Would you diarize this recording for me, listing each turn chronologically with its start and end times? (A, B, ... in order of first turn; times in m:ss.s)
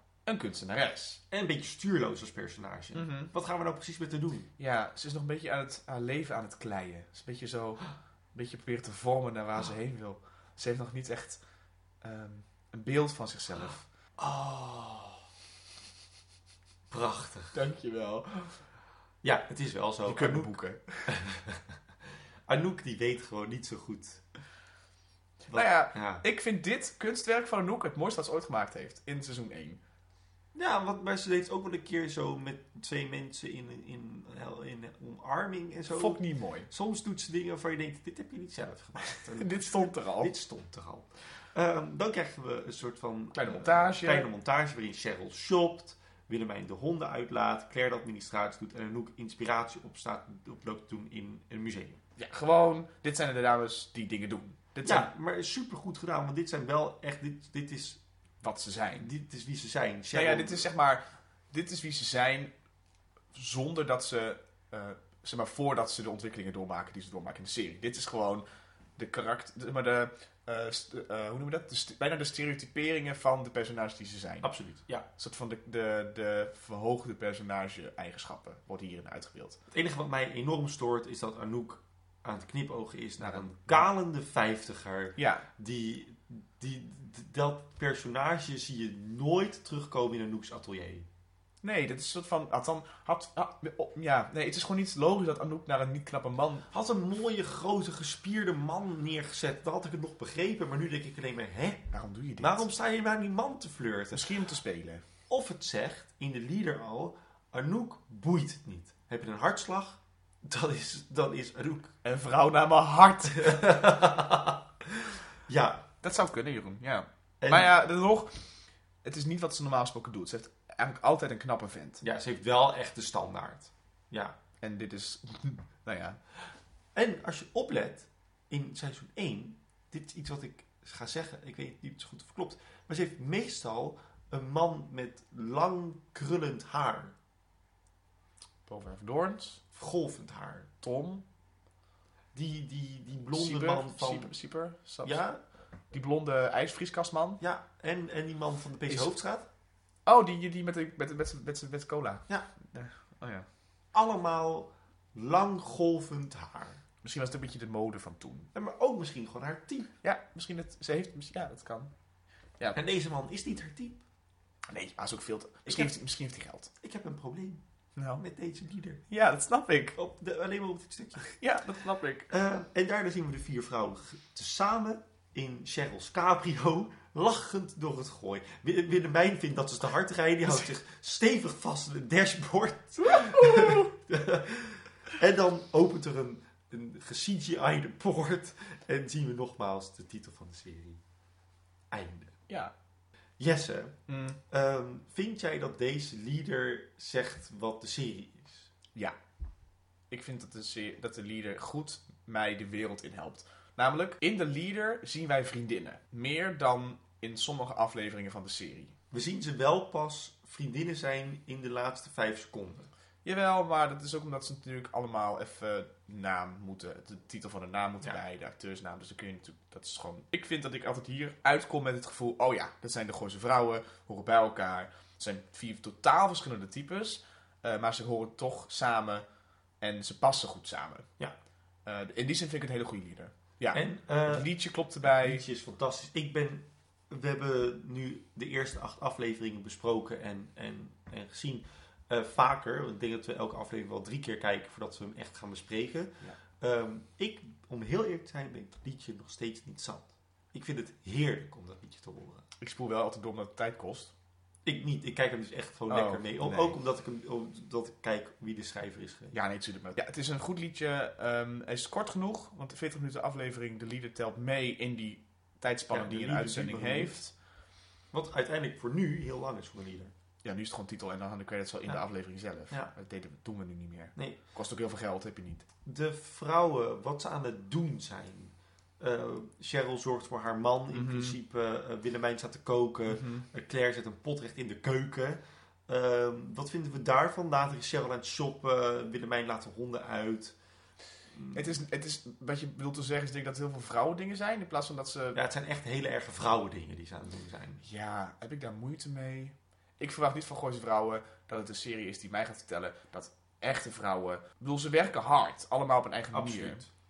0:00.3-0:01.2 A
0:01.3-0:04.5 B
0:02.9-0:03.3 A
0:04.6-0:11.4 A
0:12.0-0:15.2 A
0:16.9-0:17.6 B
0:17.5-0:18.6 A
0:19.2-0:20.6 B
0:20.1-0:21.2 A
0:21.1-0:21.6 B
0:22.5-0:24.2 B
0:25.5-0:26.2 B
0:25.5-0:29.8 A
0:30.6-0:52.0 B
0:35.9-0:36.7 A
0:39.2-0:40.3 A
0:43.3-0:44.3 A
0:52.2-0:55.1 A
0:54.8-0:58.0 B
0:58.4-0:59.1 A
0:59.0-1:00.7 B
1:00.1-1:02.5 A
1:03.3-1:08.4 A
1:09.0-1:14.5 A
1:14.4-1:15.1 B
1:15.2-1:19.6 A
1:19.7-1:31.1 B
1:23.2-1:23.8 A
1:25.2-1:25.5 A
1:31.6-1:36.7 A
1:36.7-1:44.3 B
1:41.9-1:42.7 A
1:44.1-1:45.0 A
1:45.3-1:51.9 B
1:52.0-1:53.7 A
1:53.4-1:54.6 B
1:55.5-1:55.9 B
1:56.0-1:58.4 A
1:57.4-1:57.7 B
1:59.0-2:02.0 A
2:02.0-2:04.4 B
2:04.6-2:06.2 A
2:07.0-2:17.2 B
2:18.7-2:19.6 A
2:19.7-2:20.7 B
2:20.8-2:21.2 A
2:22.3-2:24.3 B
2:23.3-2:25.2 A
2:25.0-2:25.4 B
2:25.9-2:27.4 A
2:27.4-2:29.5 B
2:28.9-2:29.2 A
2:30.1-2:33.5 A
2:33.9-2:36.8 B
2:37.0-2:38.5 A
2:38.5-2:39.9 B
2:40.0-2:41.9 A
2:42.7-2:44.0 B
2:44.7-2:46.7 A
2:45.7-2:45.9 B
2:46.8-2:47.6 B
2:48.0-2:48.2 A
2:48.2-2:49.0 B
2:49.1-2:50.0 A
2:50.0-2:51.3 B
2:51.2-2:52.3 A
2:52.3-3:11.0 B
3:03.1-3:03.9 A
3:11.9-3:12.4 B
3:13.4-3:14.0 B
3:14.1-3:14.4 A
3:14.5-3:18.7 B
3:20.1-3:29.0 A
3:29.1-3:32.9 B
3:33.2-3:49.2 A
3:49.8-3:51.1 A
3:51.9-3:55.4 A
3:53.7-3:54.5 B
3:55.0-4:12.4 B
4:12.6-4:14.1 A
4:14.6-4:19.4 B
4:15.9-4:16.8 A
4:19.3-4:27.3 A
4:25.9-4:27.2 B
4:28.1-4:30.1 B
4:30.4-4:35.6 A
4:35.9-4:50.6 B
4:40.9-4:41.4 A
4:43.1-4:43.5 A
4:51.4-4:51.7 B
4:51.5-4:55.4 A
4:55.3-4:57.8 B
4:57.8-5:06.8 A
5:06.3-5:06.9 B